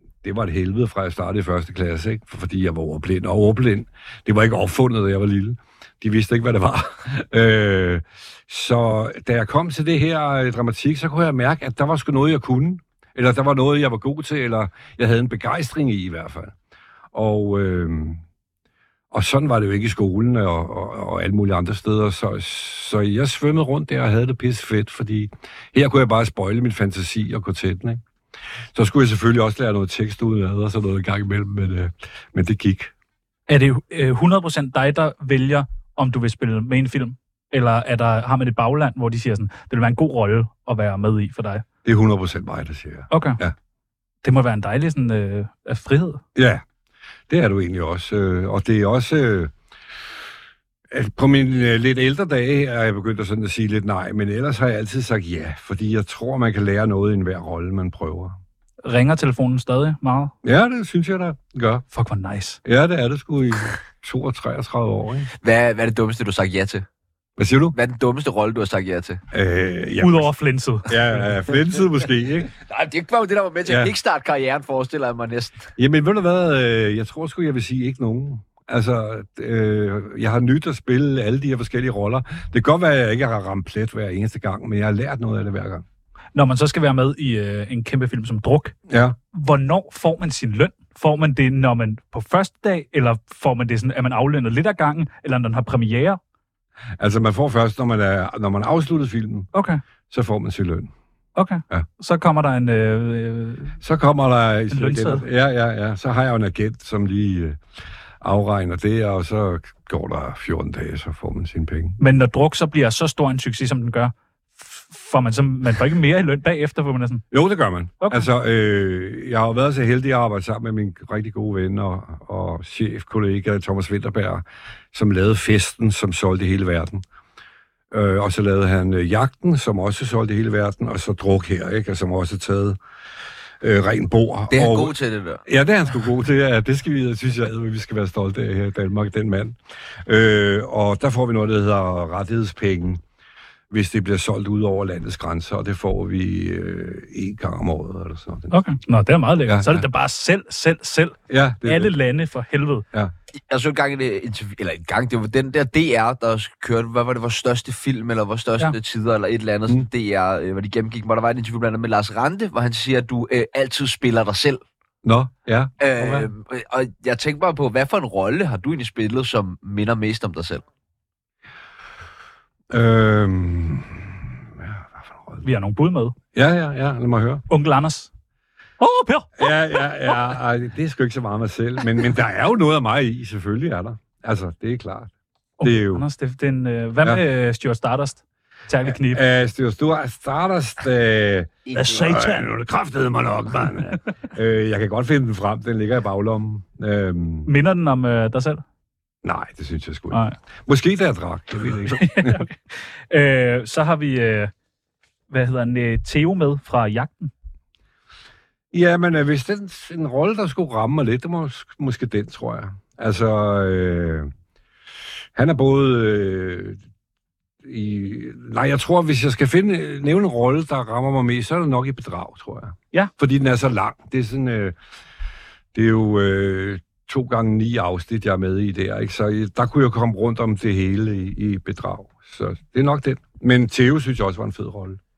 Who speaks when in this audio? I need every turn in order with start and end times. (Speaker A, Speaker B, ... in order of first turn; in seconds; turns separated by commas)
Speaker A: 0.2-16.5, Speaker A: 17.1-18.2, Speaker A: 19.1-28.0, Speaker A: 28.7-32.9, Speaker B: 33.5-41.6, Speaker A: 41.8-43.5, Speaker B: 43.1-43.4, Speaker B: 44.2-46.2, Speaker A: 46.3-46.6, Speaker A: 47.3-49.5, Speaker A: 50.9-58.4, Speaker B: 58.8-60.3, Speaker A: 60.4-61.8, Speaker B: 61.9-62.6, Speaker A: 62.6-65.3, Speaker C: 65.4-66.8, Speaker A: 67.4-67.8, Speaker C: 67.7-69.2, Speaker A: 69.3-70.3, Speaker B: 70.0-71.3, Speaker A: 70.8-72.5, Speaker C: 72.6-75.7, Speaker A: 73.7-73.9, Speaker A: 75.8-85.8, Speaker B: 86.3-88.7, Speaker A: 88.9-89.2, Speaker B: 89.3-96.2, Speaker A: 97.0-99.5, Speaker B: 99.5-99.8, Speaker A: 100.1-100.9, Speaker B: 101.3-103.8, Speaker A: 103.8-107.6, Speaker B: 104.7-105.2, Speaker A: 108.2-112.0, Speaker B: 112.0-117.2, Speaker A: 117.3-127.0, Speaker B: 118.0-118.3, Speaker A: 127.9-132.8, Speaker A: 133.6-134.9, Speaker C: 134.5-135.4, Speaker A: 135.4-143.0, Speaker A: 143.7-148.6, Speaker B: 148.5-152.8, Speaker A: 149.4-149.8, Speaker A: 151.3-151.9, Speaker C: 153.3-164.6, Speaker A: 165.0-166.3, Speaker C: 165.8-170.6, Speaker A: 172.7-175.4, Speaker B: 175.4-176.1, Speaker A: 176.3-177.4, Speaker B: 177.5-178.1, Speaker B: 178.8-180.2, Speaker A: 179.4-186.0, Speaker B: 185.6-189.2, Speaker A: 188.8-197.5, Speaker C: 191.7-192.2, Speaker B: 191.8-192.4, Speaker B: 197.4-198.6, Speaker A: 199.2-202.4, Speaker B: 200.1-200.3, Speaker B: 201.9-204.5, Speaker B: 205.3-207.3, Speaker A: 208.7-214.3, Speaker A: 215.3-216.8, Speaker A: 217.6-224.8, Speaker A: 225.7-235.0